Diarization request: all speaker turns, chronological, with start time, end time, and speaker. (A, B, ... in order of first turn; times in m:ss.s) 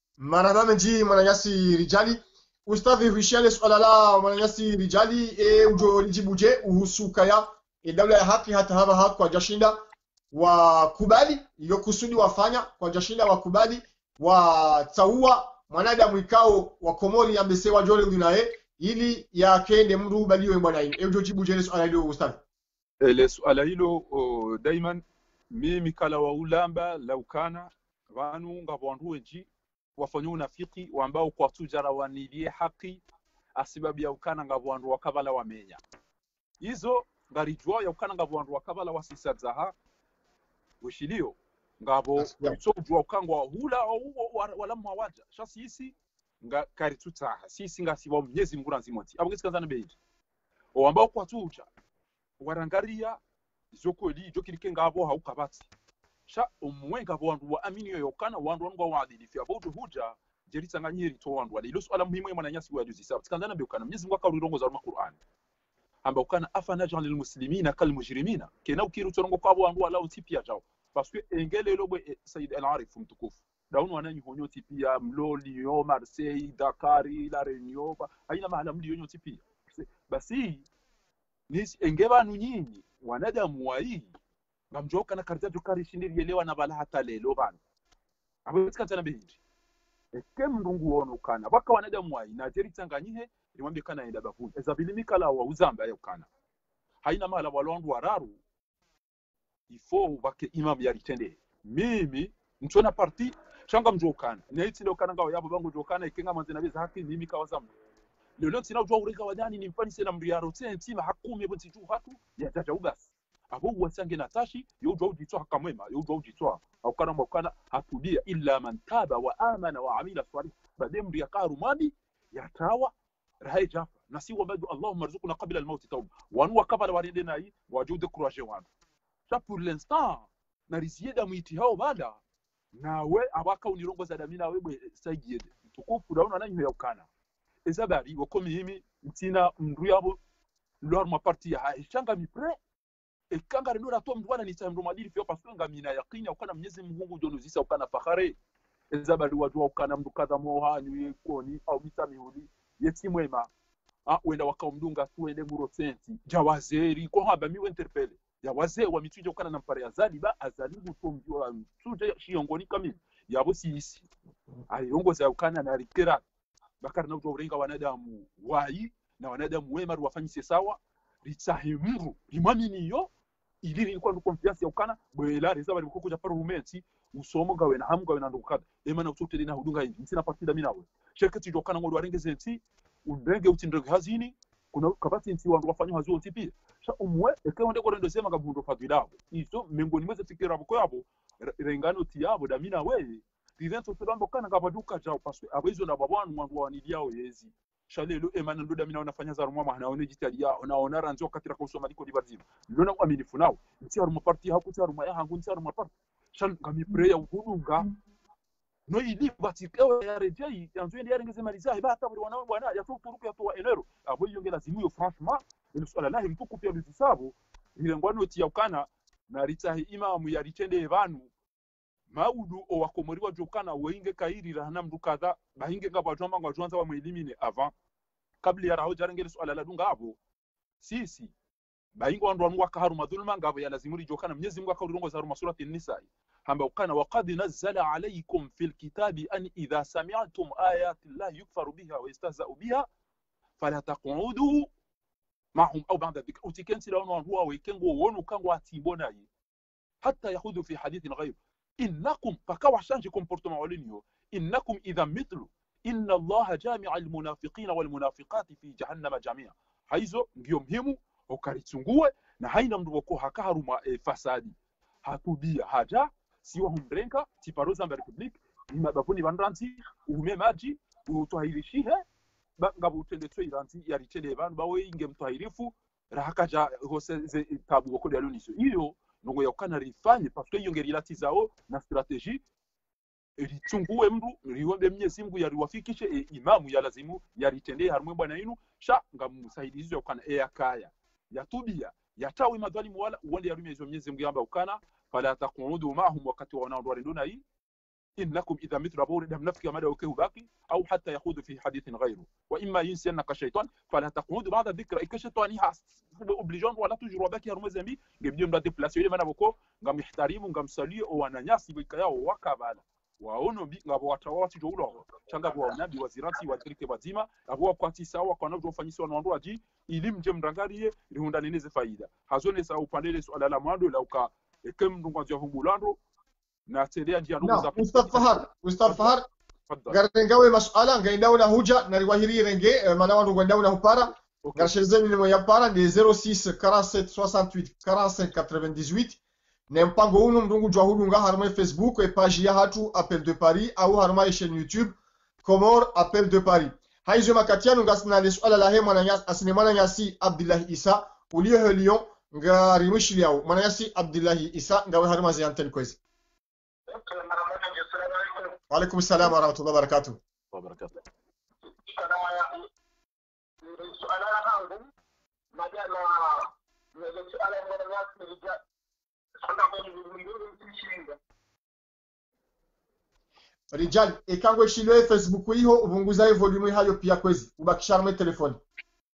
0:00.2-0:22.4 A
0:23.0-0:33.0 B
0:33.6-0:35.8 B
0:36.6-0:39.7 B
0:40.8-0:50.0 B
0:42.2-0:42.6 A
0:50.8-0:51.7 B
0:52.4-0:53.2 B
0:53.7-0:55.7 B
0:56.3-1:05.2 B
1:06.0-1:20.7 B
1:21.5-1:24.1 B
1:24.7-1:27.6 B
1:28.5-1:29.4 B
1:30.1-1:36.3 B
1:37.0-1:38.4 B
1:39.7-1:47.7 B
1:48.4-2:08.7 B
2:09.3-2:12.2 B
2:12.8-2:17.1 B
2:17.7-2:20.2 B
2:20.8-2:22.6 B
2:23.3-2:28.4 B
2:28.9-2:33.5 B
2:34.1-2:44.1 B
2:44.7-2:46.2 B
2:46.8-2:53.1 B
2:53.6-3:27.9 B
3:28.9-3:41.3 B
3:42.1-3:47.7 B
3:48.4-3:50.2 B
3:50.8-3:51.3 B
3:52.0-4:02.9 B
4:03.6-4:04.7 B
4:05.6-4:09.3 B
4:10.0-4:32.0 B
4:32.6-4:42.4 B
4:43.4-4:57.4 B
4:58.2-5:26.0 B
5:26.7-5:29.2 B
5:27.4-5:29.2 A
5:29.7-5:30.0 B
5:29.9-5:39.2 A
5:34.4-5:34.8 B
5:39.7-5:56.0 A
5:56.9-5:58.6 C
5:58.7-6:00.2 A
6:00.5-6:01.0 B
6:01.8-6:02.7 C
6:03.6-6:04.9 C
6:05.5-6:08.6 C
6:09.4-6:11.2 C
6:13.7-6:18.6 A